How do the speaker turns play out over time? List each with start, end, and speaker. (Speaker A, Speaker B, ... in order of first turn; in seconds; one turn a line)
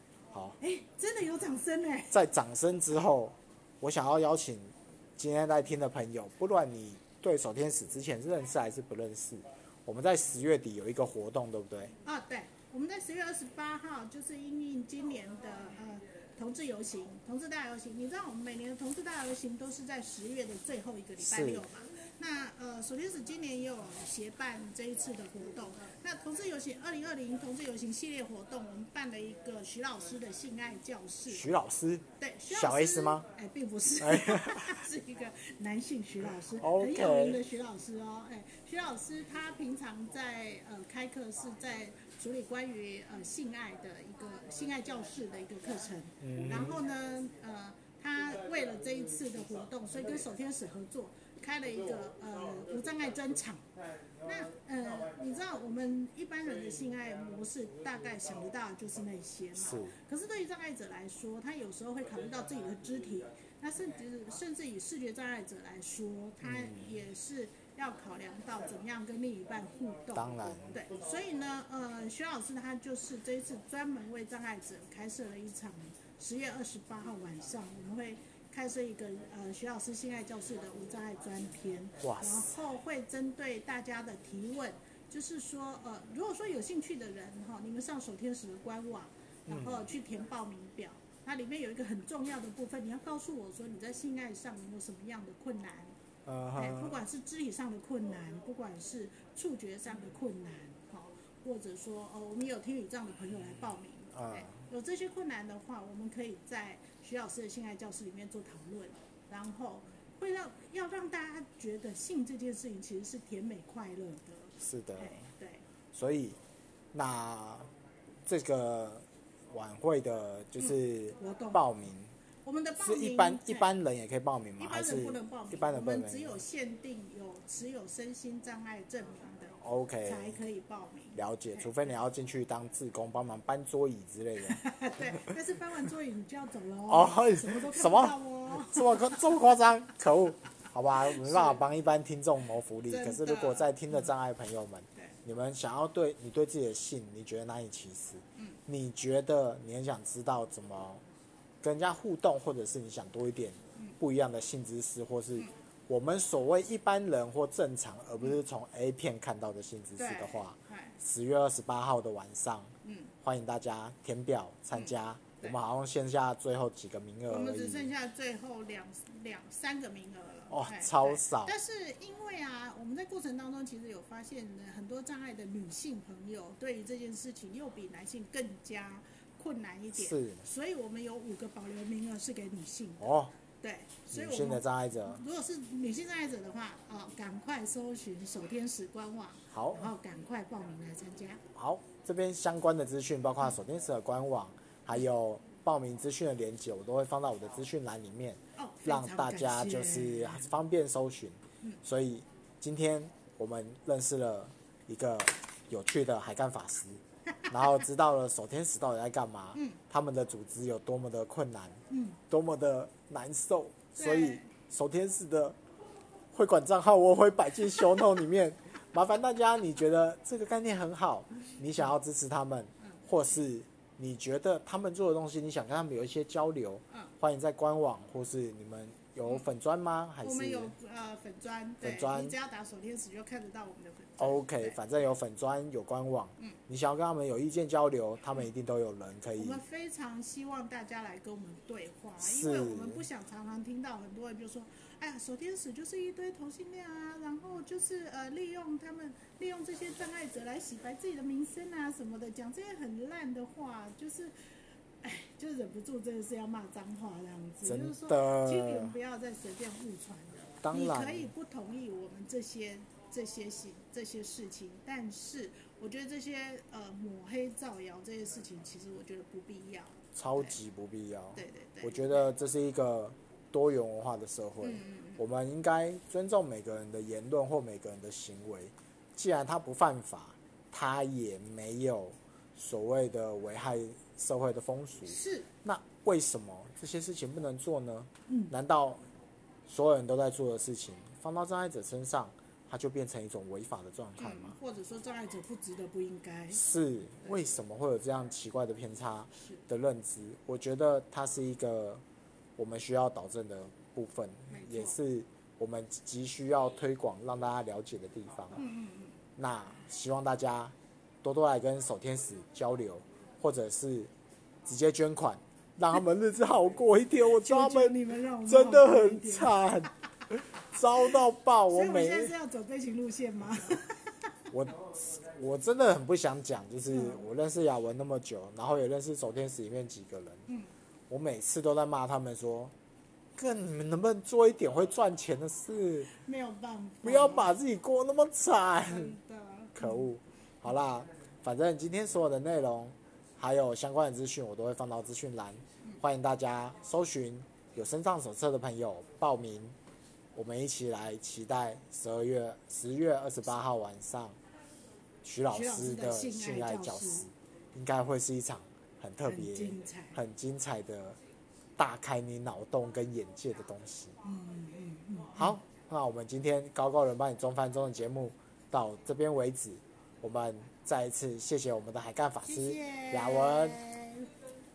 Speaker A: 0.3-0.6
Speaker B: 0.6-2.2
Speaker A: 2.1-11.9
Speaker B: 12.0-31.5
Speaker A: 21.2-21.7
Speaker A: 31.3-33.3
Speaker B: 32.2-53.7
Speaker A: 34.0-34.8
Speaker A: 36.5-37.4
Speaker A: 46.2-46.8
Speaker B: 54.2-96.0
Speaker A: 59.6-60.0
Speaker A: 66.4-66.9
Speaker A: 70.1-70.8
Speaker A: 82.0-82.5
Speaker A: 89.5-89.9
Speaker A: 96.2-97.0
Speaker B: 96.5-115.7
Speaker A: 104.1-104.6
Speaker A: 114.6-115.2
Speaker A: 115.9-116.4
Speaker A: 116.9-117.7
Speaker A: 118.3-122.1
Speaker B: 121.2-121.6
Speaker B: 122.5-123.7
Speaker A: 122.8-126.4
Speaker B: 124.6-131.9
Speaker A: 129.6-130.4
Speaker A: 131.2-134.6
Speaker B: 134.4-139.3
Speaker A: 136.9-151.0
Speaker B: 141.0-141.6
Speaker B: 142.9-144.1
Speaker A: 151.6-167.9
Speaker B: 160.0-161.0
Speaker B: 162.8-163.1
Speaker B: 164.7-165.6
Speaker B: 167.3-183.1
Speaker A: 170.5-171.5
Speaker A: 180.0-180.4
Speaker A: 183.0-183.3
Speaker B: 183.6-191.4
Speaker A: 184.1-185.2
Speaker A: 189.5-189.9
Speaker A: 191.5-215.6
Speaker B: 198.6-200.5
Speaker B: 209.5-209.8
Speaker B: 211.9-212.2
Speaker B: 214.0-214.5
Speaker A: 216.3-230.7
Speaker B: 230.2-234.8
Speaker A: 231.8-232.3
Speaker A: 234.2-239.6
Speaker B: 239.4-254.3
Speaker A: 242.2-243.1
Speaker B: 255.0-270.6
Speaker A: 257.6-259.0
Speaker A: 260.6-261.3
Speaker A: 270.1-289.0
Speaker B: 271.4-272.3
Speaker B: 274.6-275.2
Speaker B: 285.1-285.5
Speaker B: 288.3-288.5
Speaker A: 289.7-294.6
Speaker B: 294.2-296.6
Speaker A: 296.5-302.0
Speaker A: 302.6-308.6
Speaker B: 304.5-305.0
Speaker B: 308.6-309.2
Speaker A: 309.4-314.1
Speaker A: 314.7-322.3
Speaker B: 317.3-319.6
Speaker B: 321.7-324.1
Speaker A: 324.5-330.4
Speaker B: 326.9-327.2
Speaker A: 331.1-332.7
Speaker A: 333.4-336.1
Speaker B: 336.1-337.5
Speaker A: 337.0-339.1
Speaker B: 338.9-340.1
Speaker A: 339.8-349.8
Speaker A: 350.4-354.4
Speaker A: 355.2-361.2
Speaker B: 355.5-357.3
Speaker B: 359.2-360.2
Speaker A: 361.8-364.2
Speaker B: 364.2-365.6
Speaker A: 365.4-373.8
Speaker B: 372.4-374.3